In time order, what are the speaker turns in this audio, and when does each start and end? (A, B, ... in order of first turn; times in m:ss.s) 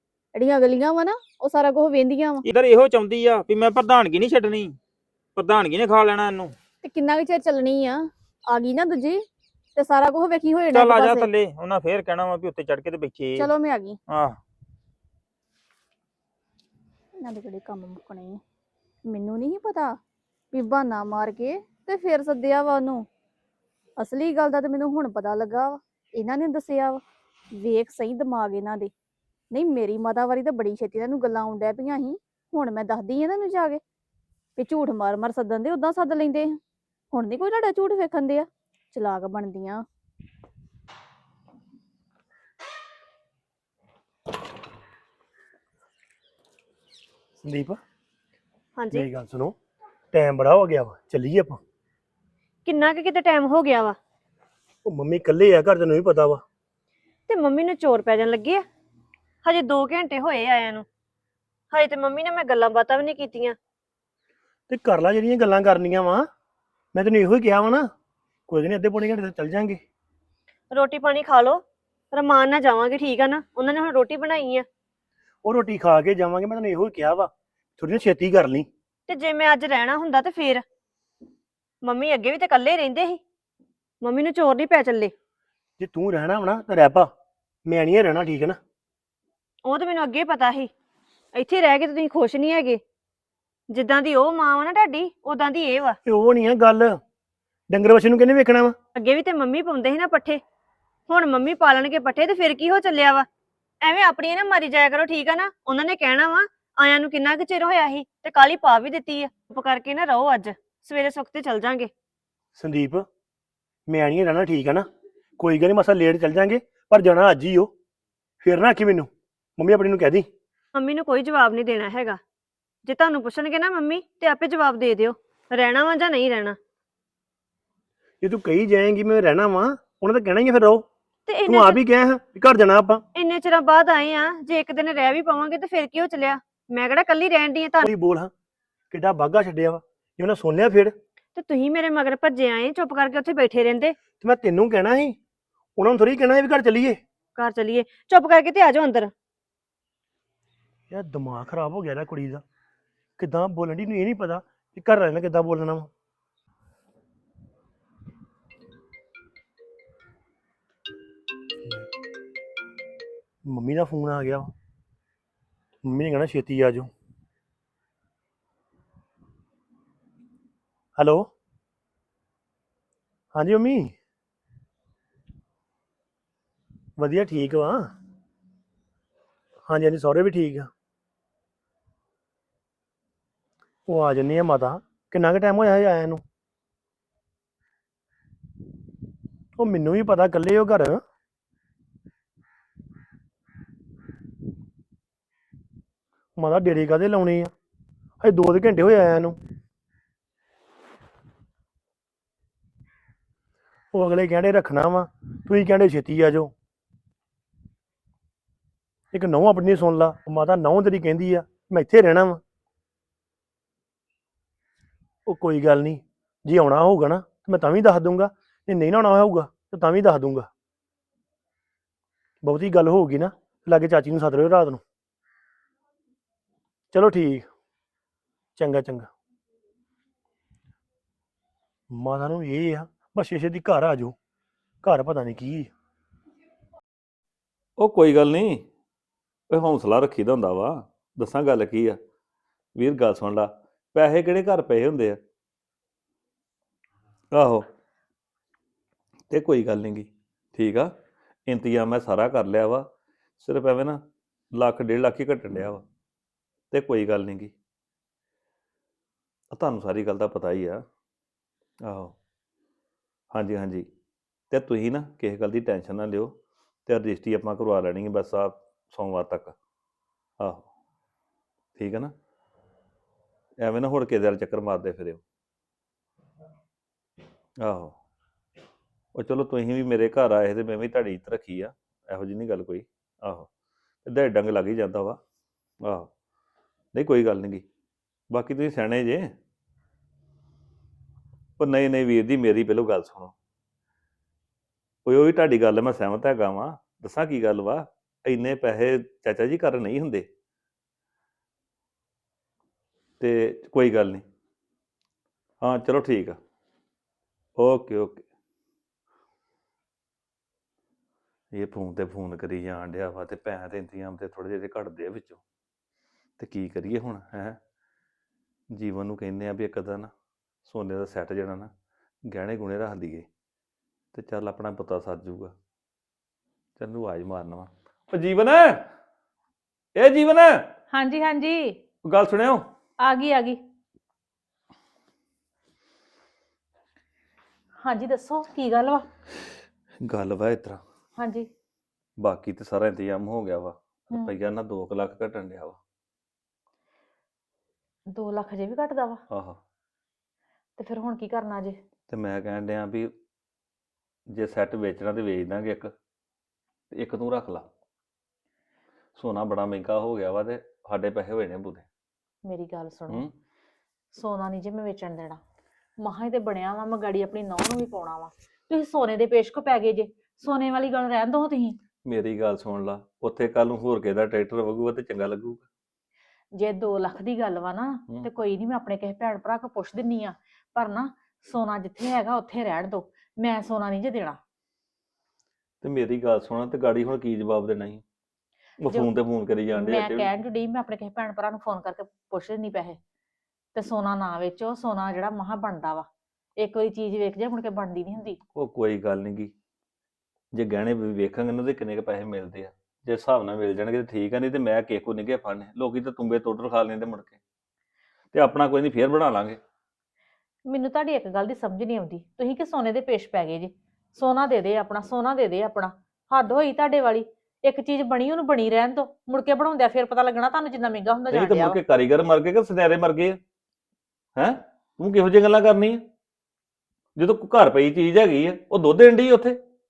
0:00.4-0:02.5 A
0:02.4-0:04.8 B
0:05.4-0:06.6 B
0:06.8-0:09.2 A
0:09.8-0:11.3 A
0:10.7-0:13.5 B
0:13.4-0:14.0 A
0:14.1-0:14.4 B
0:17.2-0:18.4 A
0:19.1-0:19.9 A
0:20.5-0:23.0 A
0:24.0-0:27.0 A
0:27.6-0:28.9 A
0:29.5-0:33.8 A
0:34.6-0:36.6 A
0:37.1-0:39.8 A
0:47.4-0:47.8 C
0:48.8-0:49.1 D
0:48.9-0:49.6 C
0:50.1-0:51.6 C
0:52.6-0:54.0 D
0:54.9-0:56.4 C
0:57.3-0:58.6 D
0:59.4-1:00.9 D
1:01.7-1:03.6 D
1:04.7-1:06.2 C
1:06.9-1:07.9 C
1:08.5-1:09.8 C
1:10.7-1:14.7 D
1:15.4-1:18.7 C
1:19.1-1:20.6 D
1:21.8-1:23.2 D
1:24.0-1:25.1 D
1:25.8-1:27.1 C
1:27.7-1:28.6 C
1:29.7-1:30.7 D
1:31.4-1:32.8 D
1:33.7-1:36.0 D
1:36.0-1:37.0 C
1:37.7-1:38.8 C
1:39.0-1:40.4 D
1:41.1-1:43.3 D
1:43.8-1:51.9 D
1:52.6-1:53.1 C
1:53.9-1:54.9 C
1:55.4-1:57.7 C
1:58.4-2:00.3 C
2:00.8-2:02.2 D
2:02.8-2:06.6 D
2:08.2-2:10.9 C
2:11.3-2:11.8 D
2:11.5-2:13.0 C
2:13.2-2:17.9 D
2:17.8-2:18.3 C
2:18.9-2:21.0 C
2:21.4-2:24.0 D
2:24.2-2:25.2 C
2:25.8-2:27.0 C
2:27.4-2:29.1 D
2:30.9-2:32.4 C
2:33.2-2:35.9 C
2:43.5-2:44.5 C
2:45.8-2:46.9 C
2:51.0-2:51.3 C
2:53.3-2:53.9 C
2:57.0-2:57.9 C
2:59.7-3:00.7 C
3:03.9-3:06.2 C
3:09.6-3:11.0 C
3:16.4-3:17.5 C
3:18.2-3:19.4 C
3:23.9-3:26.5 C
3:29.1-3:32.4 C
3:35.3-3:40.5 C
3:42.4-3:44.8 C
3:46.9-3:47.5 C
3:48.6-3:49.1 C
3:51.9-3:54.2 C
3:54.8-3:55.7 C
3:57.8-3:58.7 E
3:59.5-4:02.0 E
4:02.8-4:05.2 E
4:07.3-4:07.7 E
4:09.3-4:10.9 E
4:11.5-4:12.9 E
4:13.4-4:14.0 E
4:14.5-4:15.8 E
4:16.7-4:17.5 E
4:19.5-4:20.8 E
4:21.8-4:22.2 E
4:23.3-4:23.9 E
4:24.5-4:29.6 E
4:30.4-4:30.7 E
4:31.8-4:32.1 E
4:33.6-4:35.2 E
4:37.6-4:38.0 E
4:39.2-4:43.5 E
4:44.0-4:45.2 E
4:45.8-4:46.1 E
4:46.9-4:47.6 E
4:48.3-4:49.4 E
4:51.6-4:53.3 E
4:55.0-5:00.3 E
5:03.2-5:04.2 E
5:05.6-5:06.4 E
5:07.6-5:08.2 E
5:11.5-5:15.4 E
5:16.4-5:17.6 E
5:18.7-5:20.1 E
5:20.7-5:21.7 E
5:22.3-5:23.3 E
5:24.1-5:25.6 E
5:26.8-5:28.9 E
5:30.0-5:30.7 E
5:30.9-5:31.8 F
5:32.0-5:32.6 E
5:33.0-5:33.6 F
5:37.8-5:39.1 F
5:40.0-5:40.8 E
5:41.2-5:41.5 F
5:42.2-5:45.8 E
5:48.1-5:49.2 F
5:49.3-5:49.6 E
5:50.8-5:51.8 F
5:52.1-5:53.1 E
5:54.3-5:55.9 E
5:56.9-5:57.7 E
5:59.2-6:01.9 E
6:02.5-6:03.2 F
6:04.1-6:05.4 F
6:06.0-6:11.8 F
6:12.0-6:15.6 E
6:16.6-6:24.4 F
6:25.8-6:28.0 E
6:28.8-6:30.3 E
6:29.7-6:33.0 F
6:33.8-6:36.1 F
6:36.6-6:38.4 F
6:38.6-6:39.5 E
6:40.5-6:47.4 E
6:48.3-6:49.6 E
6:50.7-7:01.8 F
7:01.3-7:03.4 E
7:04.4-7:06.0 E
7:07.2-7:09.6 E